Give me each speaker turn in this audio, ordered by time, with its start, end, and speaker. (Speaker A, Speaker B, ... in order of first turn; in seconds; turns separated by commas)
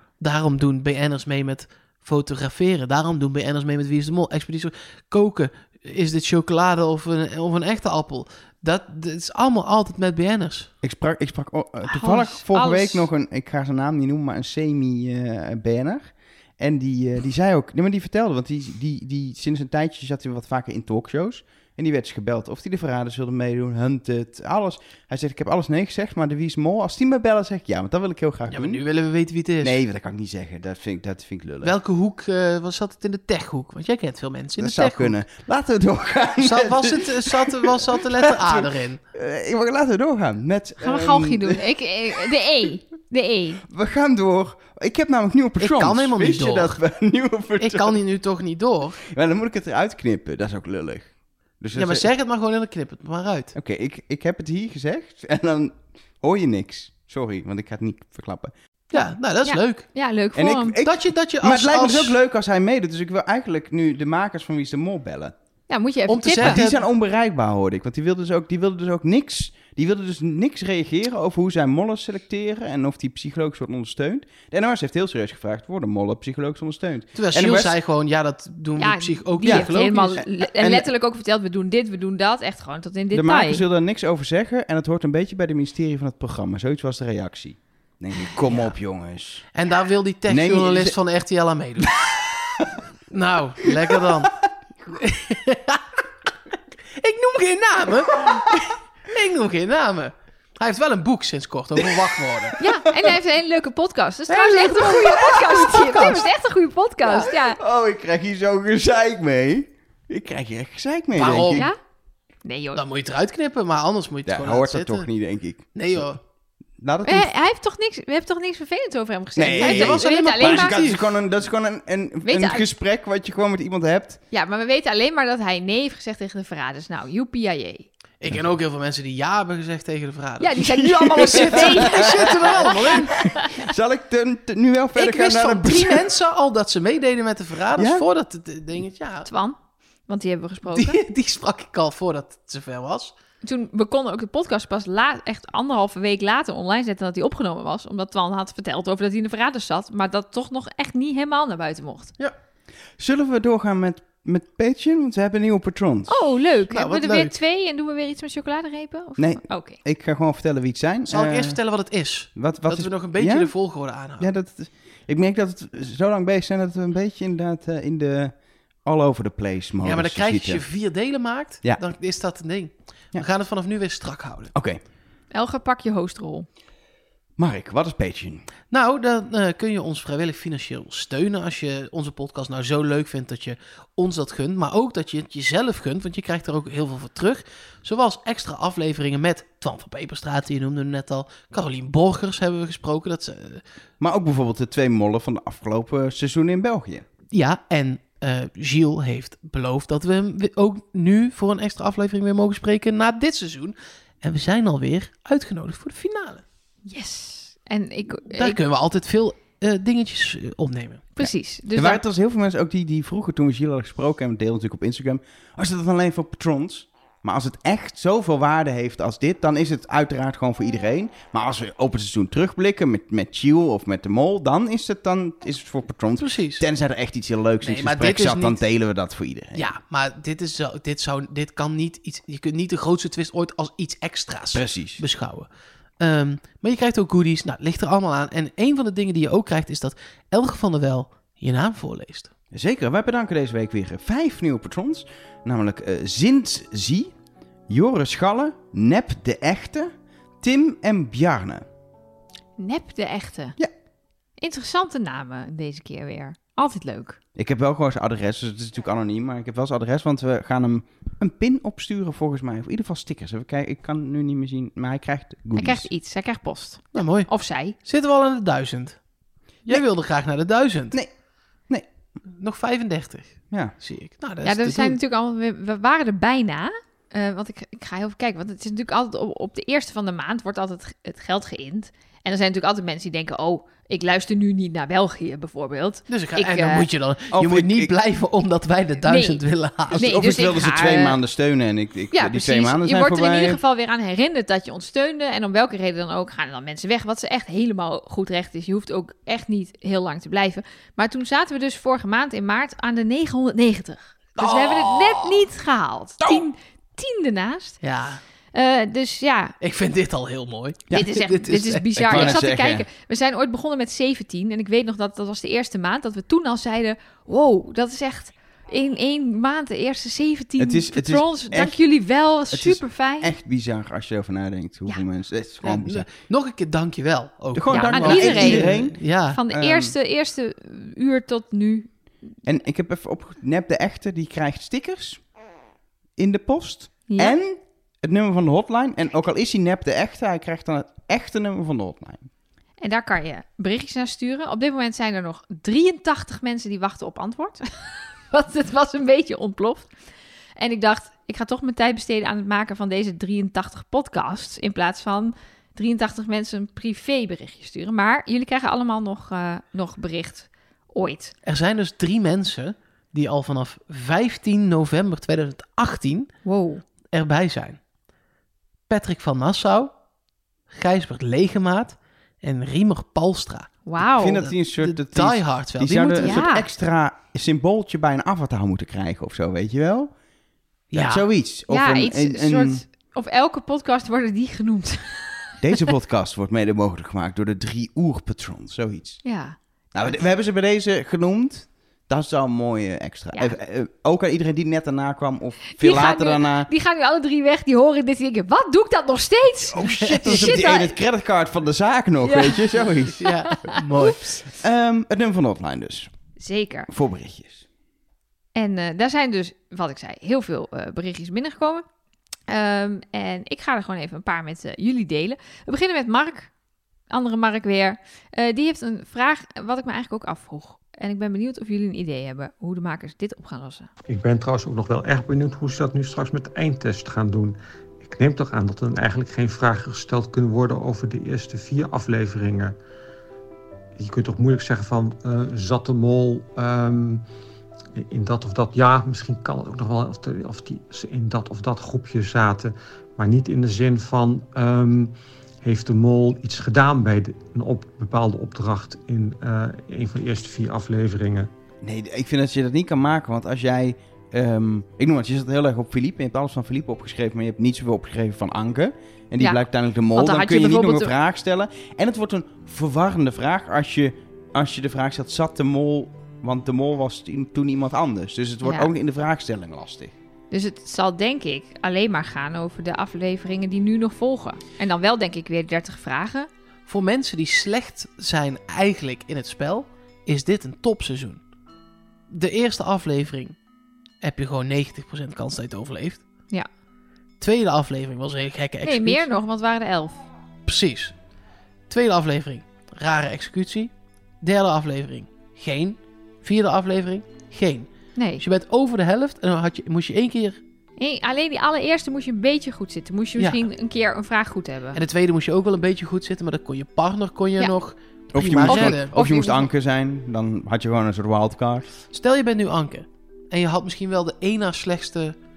Speaker A: 0.2-10.7, Speaker B: 10.8-28.8, Speaker C: 11.9-13.1, Speaker A: 28.5-29.8, Speaker B: 29.6-31.8, Speaker A: 31.6-35.2, Speaker B: 34.6-41.6, Speaker A: 36.4-39.0, Speaker C: 40.8-43.6, Speaker B: 43.7-48.0, Speaker A: 45.6-46.8, Speaker A: 47.6-49.0, Speaker B: 49.0-52.1, Speaker A: 51.7-53.5, Speaker B: 53.5-58.5, Speaker A: 58.9-59.9, Speaker C: 58.9-60.8, Speaker B: 60.4-65.3, Speaker A: 60.8-62.2, Speaker C: 65.7-66.6, Speaker A: 66.1-66.9, Speaker B: 66.4-77.8, Speaker A: 77.2-80.2, Speaker C: 78.8-83.6, Speaker B: 79.4-80.9, Speaker B: 83.1-89.5, Speaker A: 88.5-88.8, Speaker A: 89.5-91.9, Speaker B: 90.3-91.0, Speaker A: 93.1-94.3, Speaker A: 94.9-96.0, Speaker A: 96.9-102.6, Speaker C: 102.6-107.6, Speaker A: 104.3-106.3, Speaker B: 107.5-111.7, Speaker A: 111.2-111.7, Speaker C: 111.4-111.8, Speaker C: 112.5-112.8, Speaker A: 112.8-115.1, Speaker B: 114.3-116.1, Speaker A: 115.8-116.2, Speaker B: 116.8-117.3, Speaker C: 117.0-120.8, Speaker B: 119.4-124.2, Speaker A: 119.5-121.2, Speaker C: 122.2-122.7, Speaker C: 124.3-127.9, Speaker A: 128.2-133.2, Speaker C: 130.4-133.6, Speaker B: 130.9-136.1, Speaker A: 134.9-139.3, Speaker B: 137.8-138.0, Speaker C: 139.3-141.0, Speaker A: 140.7-143.1, Speaker C: 143.4-152.1, Speaker B: 153.0-156.1, Speaker C: 156.1-159.8, Speaker A: 156.7-157.3, Speaker B: 159.2-161.6, Speaker A: 161.1-164.3, Speaker B: 162.3-163.6, Speaker B: 164.2-170.7, Speaker A: 169.8-174.5, Speaker B: 174.5-174.8, Speaker C: 175.3-176.5, Speaker B: 177.4-178.5, Speaker A: 178.7-193.6, Speaker B: 194.0-197.1, Speaker A: 197.3-206.4, Speaker C: 206.9-208.6, Speaker A: 208.3-211.1, Speaker C: 211.2-212.0, Speaker B: 211.2-229.6, Speaker A: 226.2-226.6, Speaker A: 227.6-228.6, Speaker A: 229.6-242.3, Speaker B: 234.5-235.0, Speaker B: 242.5-247.1, Speaker B: 247.7-251.7, Speaker C: 252.6-253.6, Speaker C: 254.4-257.2, Speaker B: 257.4-265.9, Speaker C: 265.6-267.8, Speaker A: 266.9-269.0, Speaker A: 269.6-271.0, Speaker A: 272.3-275.0, Speaker C: 274.4-286.9, Speaker A: 286.1-290.2, Speaker B: 287.3-287.9, Speaker C: 289.0-289.4, Speaker B: 289.9-293.6, Speaker C: 290.0-291.2, Speaker C: 292.1-307.8, Speaker A: 304.4-305.5, Speaker A: 307.8-308.2, Speaker C: 308.5-309.6, Speaker A: 309.6-312.4, Speaker C: 310.9-323.3, Speaker B: 312.0-312.9, Speaker B: 320.6-321.8, Speaker B: 322.5-326.1, Speaker A: 325.6-329.4, Speaker B: 327.6-329.9, Speaker C: 327.7-331.9, Speaker B: 332.4-335.2, Speaker B: 336.2-342.3, Speaker C: 337.1-337.4, Speaker C: 342.8-349.9, Speaker C: 350.6-361.4, Speaker A: 361.4-366.3, Speaker C: 366.4-366.9, Speaker A: 367.1-367.8, Speaker A: 368.9-369.9, Speaker A: 370.7-373.8, Speaker C: 373.9-374.5, Speaker B: 374.0-380.1, Speaker A: 374.5-376.4, Speaker C: 376.2-376.7, Speaker A: 380.9-381.3, Speaker B: 380.9-382.8, Speaker C: 381.7-385.6, Speaker B: 385.6-389.2, Speaker C: 389.2-389.6, Speaker B: 389.9-396.7, Speaker C: 395.8-401.0, Speaker B: 399.8-406.1, Speaker A: 399.8-400.5, Speaker C: 402.2-404.1, Speaker A: 403.1-404.4, Speaker C: 406.4-406.9, Speaker B: 406.9-407.6, Speaker C: 408.6-411.8, Speaker C: 412.5-416.5, Speaker C: 417.1-423.9, Speaker D: 424.1-432.8, Speaker D: 434.0-437.2, Speaker D: 438.0-451.5, Speaker B: 451.8-470.1, Speaker C: 460.1-461.1, Speaker C: 468.6-468.9, Speaker C: 470.5-476.5, Speaker A: 476.9-481.4, Speaker A: 482.3-483.6, Speaker A: 484.2-486.2, Speaker A: 487.4-489.3, Speaker C: 488.8-490.2, Speaker A: 490.7-491.1, Speaker A: 491.9-500.6, Speaker C: 498.2-498.4, Speaker C: 501.0-505.0, Speaker A: 503.4-503.6, Speaker A: 504.9-509.1, Speaker B: 508.3-511.9, Speaker C: 508.6-509.7, Speaker A: 512.1-515.4